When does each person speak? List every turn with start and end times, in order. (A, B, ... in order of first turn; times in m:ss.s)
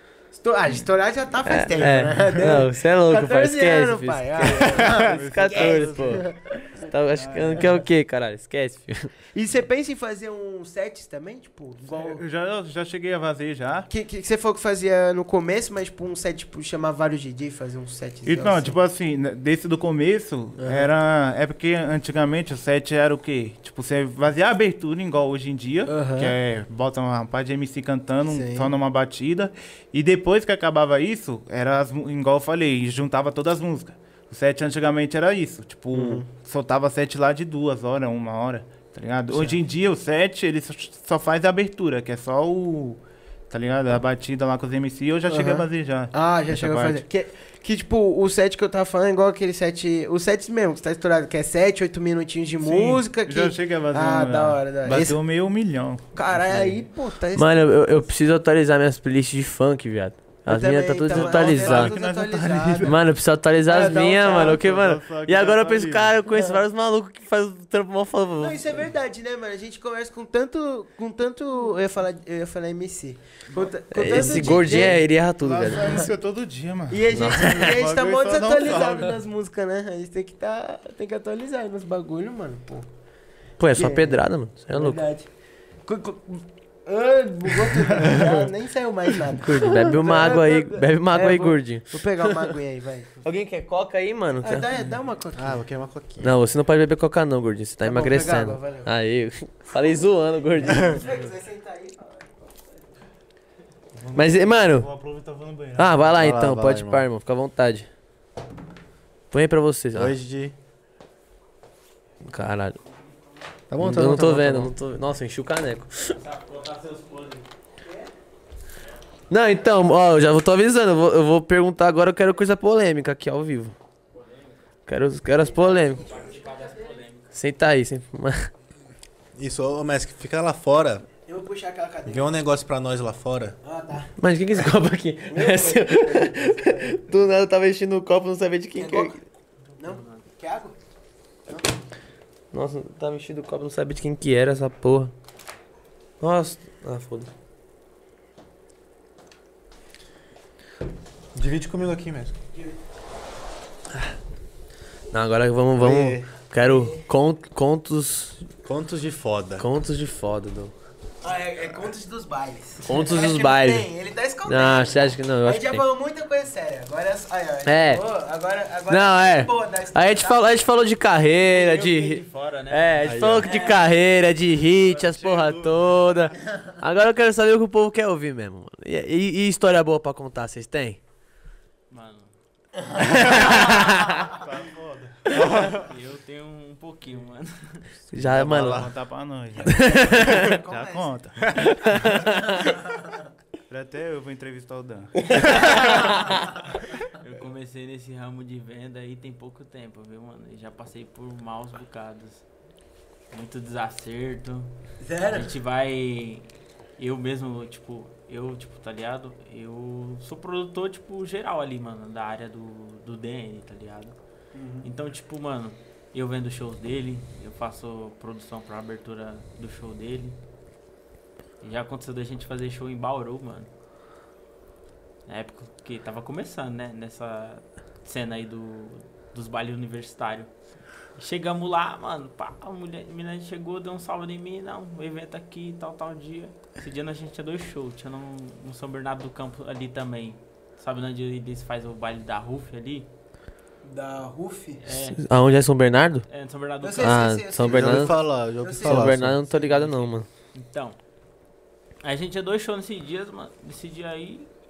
0:00.3-0:06.9 A
0:01.5-0:06.3 B
0:01.8-0:02.5 C
0:04.6-0:06.3 C
0:06.8-0:09.1 B
0:07.1-0:07.7 C
0:09.3-0:12.2 A
0:11.9-0:13.9 C
0:13.9-0:18.8 A
0:18.2-0:47.0 C
0:20.6-0:20.9 A
0:25.9-0:26.4 A
0:28.3-0:28.7 A
0:35.9-0:36.3 A
0:39.3-0:39.6 A
0:45.3-0:55.2 A
0:52.6-0:56.8 C
0:56.1-0:57.5 A
0:57.4-1:01.9 B
1:00.5-1:03.0 A
1:01.1-1:03.0 C
1:02.8-1:08.8 B
1:03.7-1:04.6 A
1:03.7-1:06.2 C
1:06.3-1:06.6 A
1:08.4-1:15.0 A
1:13.5-1:19.2 C
1:13.9-1:16.1 B
1:16.9-1:22.9 A
1:17.1-1:17.8 B
1:23.6-1:25.0 B
1:23.7-1:25.3 A
1:25.9-1:33.2 A
1:28.0-1:28.3 C
1:29.4-1:32.5 B
1:33.2-1:34.7 B
1:34.4-1:35.6 A
1:35.4-1:36.4 D
1:36.2-1:41.0 B
1:37.8-1:38.9 A
1:40.6-1:42.8 A
1:44.0-1:46.1 C
1:44.2-1:44.9 B
1:45.8-1:47.9 B
1:46.2-1:47.0 D
1:49.3-1:50.2 B
1:49.9-1:50.6 D
1:52.2-1:52.8 B
1:53.7-1:54.7 D
1:53.8-1:56.2 B
1:56.2-1:57.5 E
1:59.3-2:03.8 B
2:04.9-2:06.2 B
2:05.6-2:07.0 A
2:05.7-2:07.3 E
2:07.3-2:08.5 B
2:09.4-2:11.0 D
2:11.3-2:12.3 A
2:12.1-2:13.6 D
2:13.6-2:14.1 A
2:14.2-2:19.2 B
2:15.3-2:17.0 A
2:18.8-2:19.2 A
2:19.8-2:20.8 A
2:19.8-2:20.2 E
2:22.5-2:25.1 B
2:26.2-2:27.3 B
2:31.3-2:32.3 D
2:35.1-2:38.4 B
2:35.8-2:36.3 D
2:36.6-2:37.0 A
2:38.6-2:39.7 D
2:39.6-2:40.7 B
2:41.2-2:50.6 A
2:42.8-2:43.9 B
2:44.5-2:45.8 B
2:47.6-2:48.0 B
2:48.9-3:01.0 B
2:51.5-2:53.7 E
2:53.0-2:53.5 D
2:53.4-2:53.8 A
2:55.0-2:55.7 C
3:01.9-3:02.3 E
3:03.0-3:04.2 B
3:03.3-3:05.9 C
3:05.4-3:08.1 E
3:08.1-3:08.9 B
3:08.2-3:12.2 C
3:09.6-3:11.2 A
3:09.7-3:10.5 B
3:11.7-3:12.5 B
3:13.7-3:15.8 C
3:15.4-3:16.0 A
3:17.1-3:22.4 E
3:23.3-3:24.7 E
3:25.0-3:25.5 A
3:25.3-3:34.2 E
3:34.5-3:34.9 A
3:34.8-3:40.4 E
3:41.6-3:43.7 E
3:45.3-3:50.5 E
3:51.2-4:03.1 E
4:03.8-4:04.8 A
4:04.8-4:05.2 E
4:05.1-4:06.2 B
4:06.3-4:07.4 E
4:06.8-4:09.2 A
4:07.0-4:08.2 B
4:07.7-4:09.4 D
4:08.8-4:10.3 B
4:09.4-4:11.0 E
4:12.0-4:14.5 E